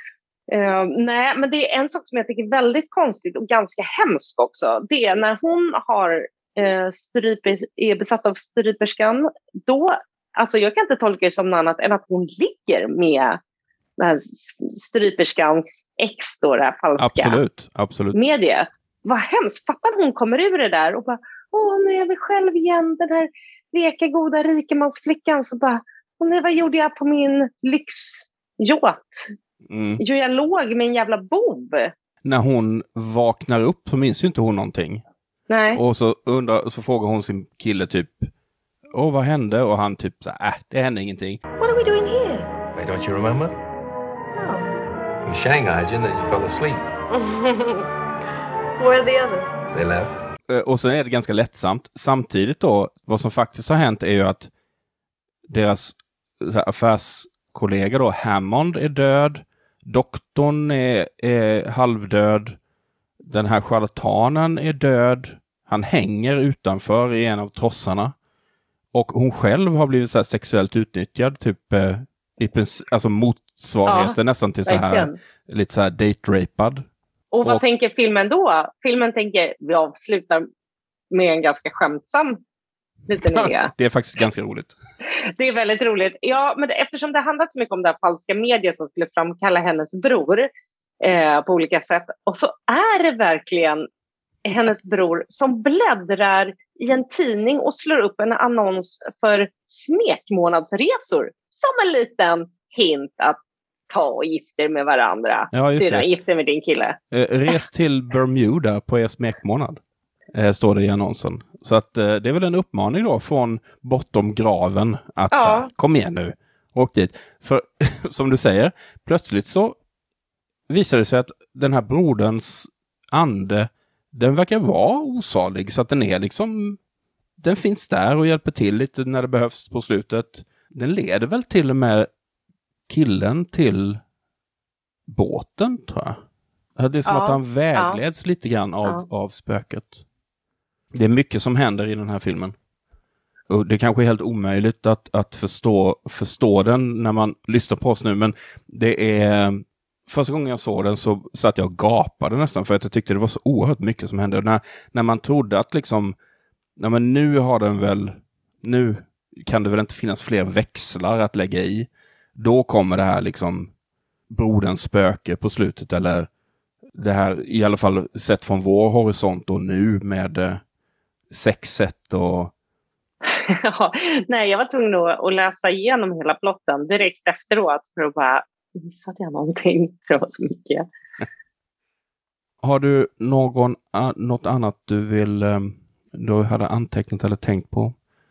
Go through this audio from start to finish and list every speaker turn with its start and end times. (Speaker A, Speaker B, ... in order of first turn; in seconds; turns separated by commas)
Speaker A: 0.5-13.4, Speaker A: 14.0-17.4, Speaker B: 17.0-18.2, Speaker A: 18.1-29.3, Speaker B: 29.7-30.0, Speaker A: 30.0-31.9, Speaker B: 32.2-35.0, Speaker A: 35.5-35.8, Speaker B: 35.7-38.3, Speaker B: 38.9-41.4, Speaker C: 41.6-42.5, Speaker D: 42.7-43.6, Speaker C: 44.4-44.7, Speaker D: 45.2-46.9, Speaker C: 47.1-47.8, Speaker C: 48.8-49.5, Speaker D: 49.7-50.1, Speaker B: 50.5-54.5, Speaker B: 55.5-62.6, Speaker B: 63.2-68.1, Speaker B: 68.9-76.9, Speaker A: 73.8-75.2, Speaker A: 77.3-80.5, Speaker A: 81.1-82.4, Speaker A: 83.1-83.7, Speaker B: 83.2-84.8, Speaker A: 85.3-90.5, Speaker A: 91.0-93.9, Speaker A: 94.4-103.4, Speaker A: 103.9-107.0, Speaker B: 105.5-106.1, Speaker B: 107.1-109.8, Speaker B: 110.3-119.8, Speaker A: 115.3-115.7, Speaker B: 120.7-126.8, Speaker B: 127.4-132.1, Speaker B: 132.9-134.0, Speaker B: 135.1-136.2, Speaker B: 136.8-140.0, Speaker A: 137.0-138.0, Speaker B: 140.9-142.5, Speaker B: 143.5-156.2, Speaker B: 156.8-163.7, Speaker B: 164.3-166.3, Speaker B: 166.9-170.6, Speaker B: 171.3-172.5, Speaker A: 173.3-180.8, Speaker B: 182.6-187.9